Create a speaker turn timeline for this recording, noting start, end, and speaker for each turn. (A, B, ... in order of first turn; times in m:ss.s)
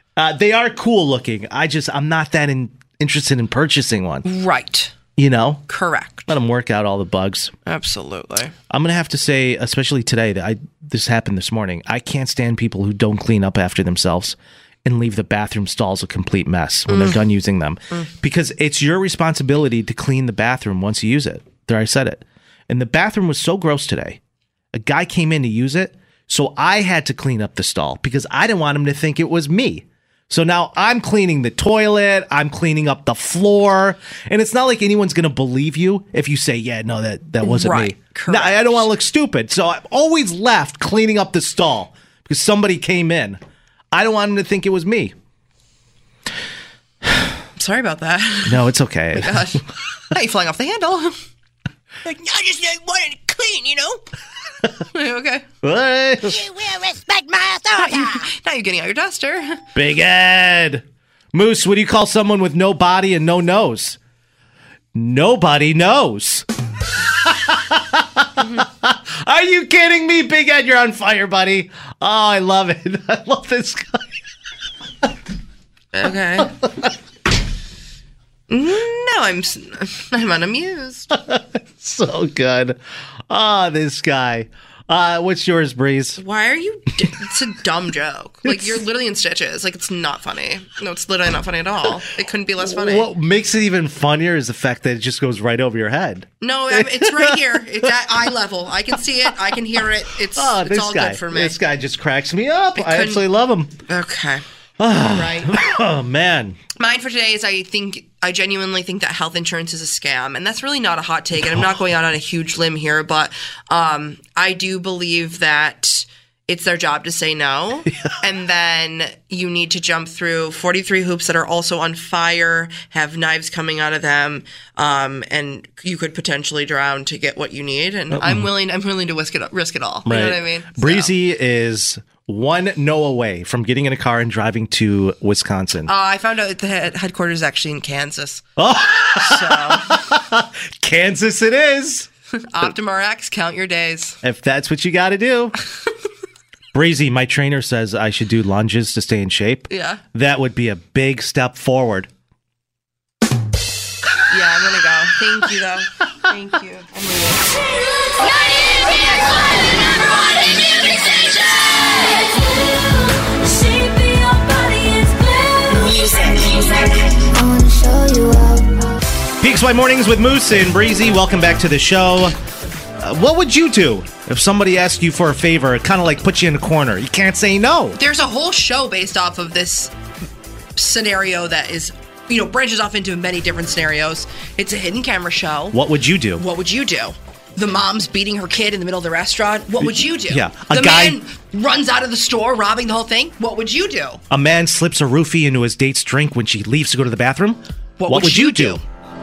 0:00.2-0:04.2 A
0:04.2-0:05.0 B
0:05.2-0:05.6 A
0:05.7-0:06.3 B
0:06.3-0:07.5 A
0:07.7-0:08.5 B
0:08.7-0:24.2 A
0:16.9-0:17.2 B
0:24.7-0:43.4 A
0:37.4-0:38.9 B
0:43.9-0:45.1 A
0:47.6-0:51.2 B
0:48.5-0:49.6 A
0:52.0-0:54.0 B
0:54.9-0:55.4 B
0:55.6-0:56.4 A
0:57.7-0:59.6 B
0:59.8-1:04.0 A
1:05.0-1:06.4 A
1:07.1-1:14.0 A
1:15.9-1:16.5 B
1:18.5-1:21.1 B
1:21.1-1:22.8 A
1:23.3-1:26.2 A
1:26.2-1:33.1 B
1:32.6-1:37.5 A
1:36.4-1:41.6 B
1:40.4-1:43.8 A
1:42.8-1:43.3 B
1:43.9-1:44.4 B
1:44.8-1:46.6 A
1:45.0-1:45.6 B
1:46.8-2:11.1 B
2:08.1-2:08.5 A
2:10.1-2:15.9 A
2:15.9-2:18.4 B
2:18.6-2:22.1 A
2:19.2-2:20.0 B
2:22.4-2:24.2 B
2:24.2-2:25.6 A
2:26.7-2:32.1 A
2:29.7-2:30.0 B
2:34.3-2:37.6 B
2:43.3-2:46.0 C
2:49.4-2:52.4 A
2:53.0-2:58.0 A
2:58.0-2:59.9 B
3:00.8-3:05.8 B
3:05.7-3:06.4 A
3:06.4-3:14.2 B
3:09.8-3:11.2 A
3:14.3-3:18.8 A
3:18.0-3:18.8 B